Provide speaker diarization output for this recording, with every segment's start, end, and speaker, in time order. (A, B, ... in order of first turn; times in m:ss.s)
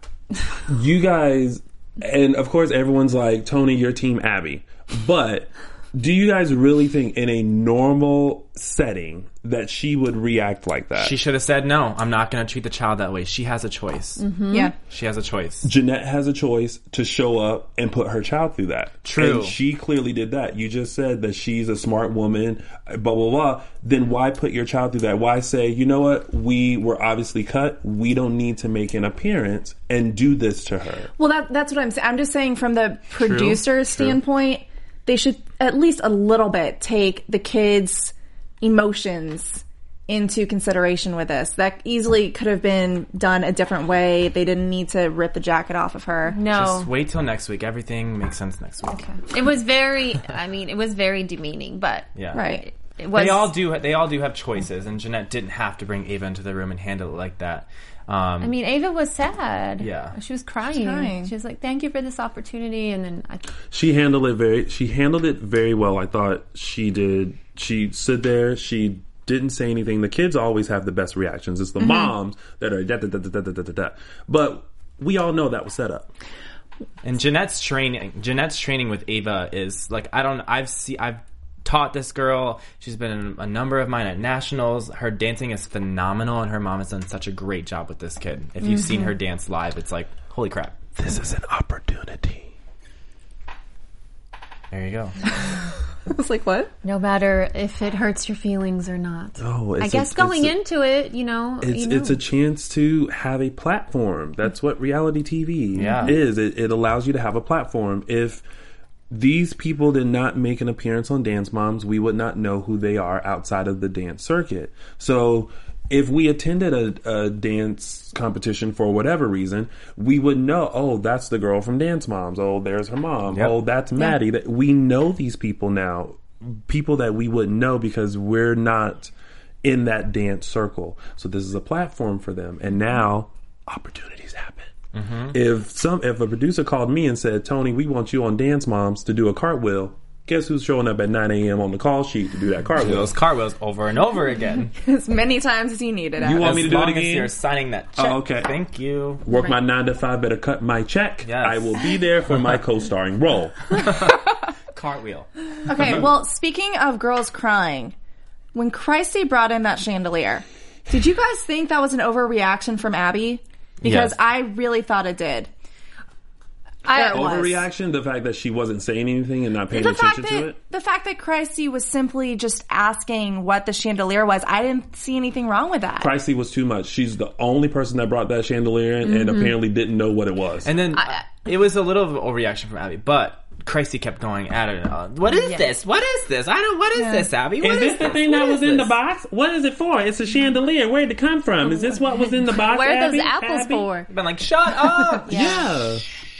0:00.7-0:11.2 A
0:11.0-0:14.2 B
0:14.2-0:14.7 C
0:14.9-0:15.7 B
0:15.6-0:31.1 A
0:19.0-0:19.6 B
0:31.2-0:46.4 D
0:33.2-0:34.2 A
0:46.3-0:46.9 C
0:46.5-0:49.1 B
0:48.9-0:53.5 C
0:52.1-0:52.4 B
0:52.3-0:52.6 D
0:53.1-0:58.5 B
0:58.4-1:03.5 C
0:59.8-1:00.1 B
1:00.6-1:01.3 D
1:03.7-1:16.1 A
1:17.0-1:30.8 B
1:31.0-1:32.5 A
1:34.7-1:35.2 B
1:36.1-1:36.7 D
1:36.8-1:42.2 C
1:39.4-1:40.5 A
1:41.6-1:48.4 A
1:45.7-1:46.2 B
1:49.1-2:09.1 A
2:09.6-2:14.7 A
2:14.9-2:15.4 B
2:15.3-2:23.1 A
2:22.8-2:24.7 B
2:24.8-2:26.6 D
2:26.2-2:27.3 A
2:26.4-2:29.2 B
2:28.0-2:28.5 A
2:29.2-2:33.7 A
2:31.2-2:31.8 B
2:33.8-2:34.2 B
2:34.7-2:35.3 B
2:35.7-2:37.9 D
2:38.5-2:45.5 D
2:43.8-2:44.1 B
2:46.8-2:47.3 C
2:46.9-2:47.7 D
2:46.9-2:50.6 A
2:49.7-2:56.1 D
2:56.0-3:00.7 A
2:59.0-2:59.6 C
3:00.6-3:08.9 B
3:01.0-3:01.2 C
3:05.3-3:05.7 C
3:07.0-3:07.3 D
3:07.6-3:13.9 A
3:12.5-3:14.1 C
3:14.1-3:15.6 B
3:15.3-3:16.0 A